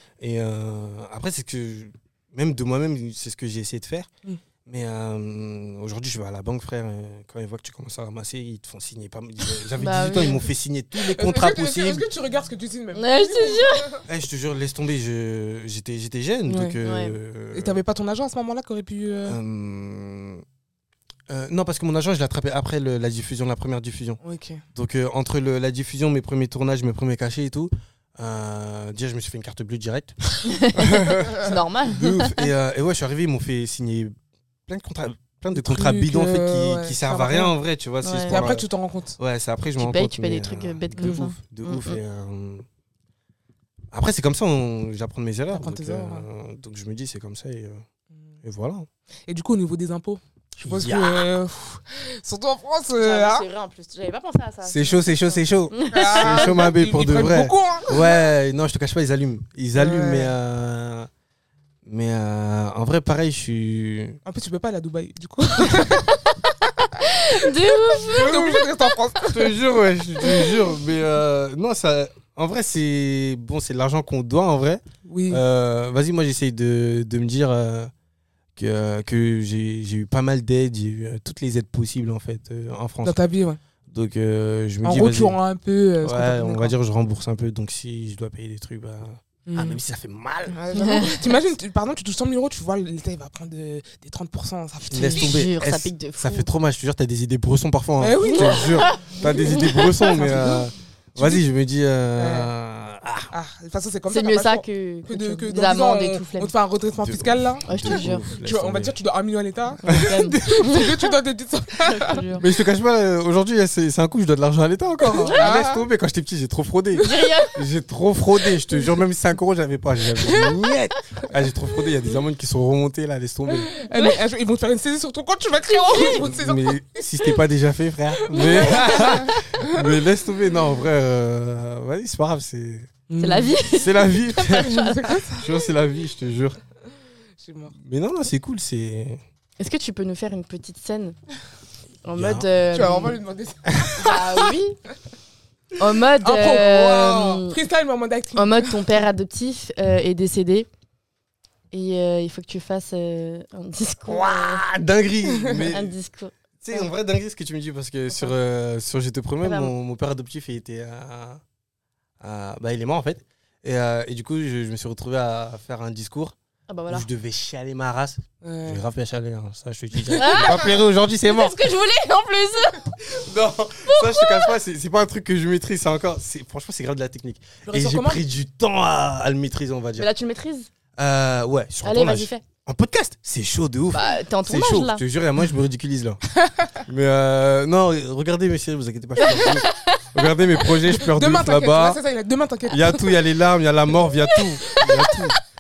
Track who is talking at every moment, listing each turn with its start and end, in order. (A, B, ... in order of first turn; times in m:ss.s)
0:00.2-0:04.1 A
0:04.7-0:12.1 A
0:09.8-0:10.5 B
0:09.9-0:10.4 C
0:11.0-0:14.0 C
0:12.9-0:14.0 B
0:14.0-0:17.8 A
0:16.5-0:16.8 C
0:16.8-0:17.2 B
0:17.5-0:19.4 C
0:19.2-0:20.4 A
0:21.3-0:24.2 A
0:24.2-0:24.6 C
0:24.7-0:34.2 A
0:30.5-0:32.5 B
0:34.7-0:38.6 A
0:35.5-0:37.6 C
0:38.0-0:38.5 B
0:38.3-0:39.2 C
0:39.2-0:42.6 A
0:39.8-0:42.0 B
0:43.9-0:47.8 A
0:45.5-0:46.3 C
0:48.4-0:48.9 A
0:49.3-0:53.5 C
0:50.6-0:51.3 A
0:53.0-0:56.5 B
0:54.6-1:01.1 A
0:55.9-0:58.1 C
0:59.8-1:00.4 C
1:01.8-1:04.2 A
1:04.2-1:09.5 C
1:07.0-1:08.8 B
1:09.3-1:17.9 A
1:15.1-1:15.4 C
1:18.6-1:23.2 A
1:23.0-1:23.6 C
1:23.9-1:25.4 A
1:24.8-1:26.8 C
1:26.0-1:30.6 A
1:29.5-1:29.8 C
1:30.5-1:35.4 C
1:30.8-1:31.2 B
1:34.9-1:43.3 A
1:34.9-1:36.5 B
1:38.0-1:41.4 C
1:38.4-1:40.0 B
1:42.2-1:42.5 C
1:43.3-1:52.2 C
1:44.1-1:46.5 B
1:47.0-1:49.0 A
1:47.7-1:48.3 B
1:49.8-1:51.1 B
1:49.9-1:50.8 A
1:51.8-1:52.5 B
1:52.3-2:03.7 A
1:55.1-1:55.4 B
1:55.3-1:55.9 C
1:57.0-1:57.3 C
1:57.0-1:57.6 B
2:00.3-2:00.5 B
2:03.6-2:07.4 C
2:05.7-2:06.3 B
2:06.2-2:12.9 A
2:08.2-2:10.0 C
2:13.1-2:13.6 C
2:13.2-2:15.4 B
2:13.7-2:14.8 A
2:14.5-2:15.4 C
2:15.3-2:16.6 A
2:17.4-2:17.8 C
2:17.8-2:19.2 A
2:19.6-2:21.2 B
2:22.0-2:23.2 B
2:22.2-2:22.4 A
2:22.7-2:24.5 C
2:23.7-2:24.0 A
2:23.9-2:24.8 B
2:25.8-2:27.6 B
2:26.2-2:29.1 C
2:28.4-2:30.7 B
2:31.7-2:34.6 B
2:34.1-2:36.0 A
2:35.4-2:35.6 C
2:35.6-2:36.3 B
2:36.6-2:41.4 A
2:39.4-2:39.7 B
2:42.2-2:46.4 A
2:46.7-2:47.1 B
2:46.9-2:51.6 A
2:48.4-2:48.8 C
2:50.1-2:52.9 B
2:53.0-3:00.1 A
2:53.9-2:54.5 B
2:57.6-2:58.2 C
3:00.0-3:00.7 B
3:01.0-3:06.2 A
3:01.8-3:02.4 B
3:03.9-3:05.0 B
3:06.8-3:12.0 A
3:09.2-3:10.0 B
3:11.0-3:13.2 C
3:12.7-3:15.4 A
3:14.3-3:15.0 B